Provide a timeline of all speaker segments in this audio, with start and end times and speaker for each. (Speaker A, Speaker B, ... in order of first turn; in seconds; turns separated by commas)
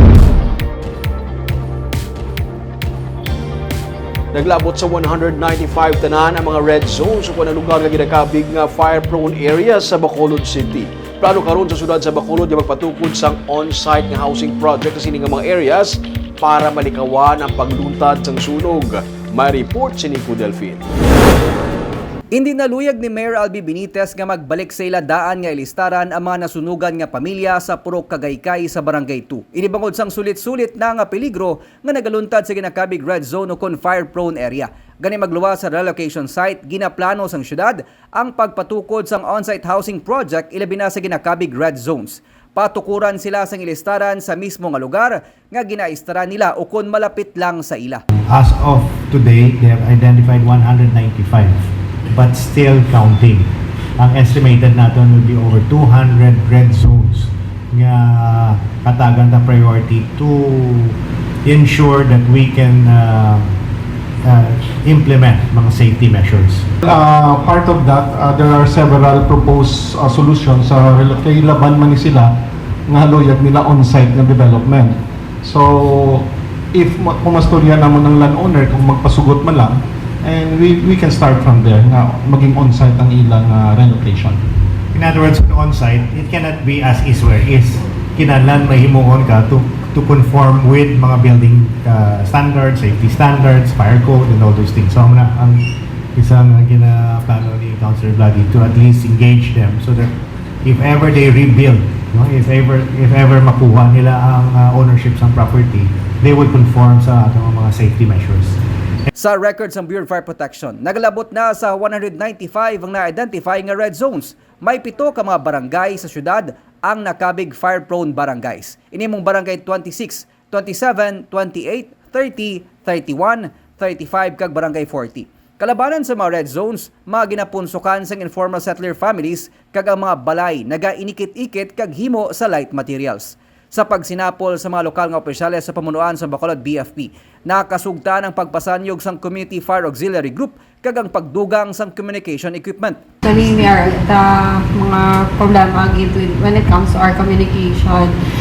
Speaker A: 4.3-20.8, Speaker B: 22.3-48.0, Speaker C: 48.3-53.5, Speaker C: 54.0-63.5, Speaker C: 64.2-66.6, Speaker D: 66.8-72.3, Speaker D: 72.9-84.4, Speaker C: 84.9-95.6, Speaker C: 96.1-100.1, Speaker C: 100.6-108.6, Speaker B: 109.1-143.0, Speaker E: 143.2-148.1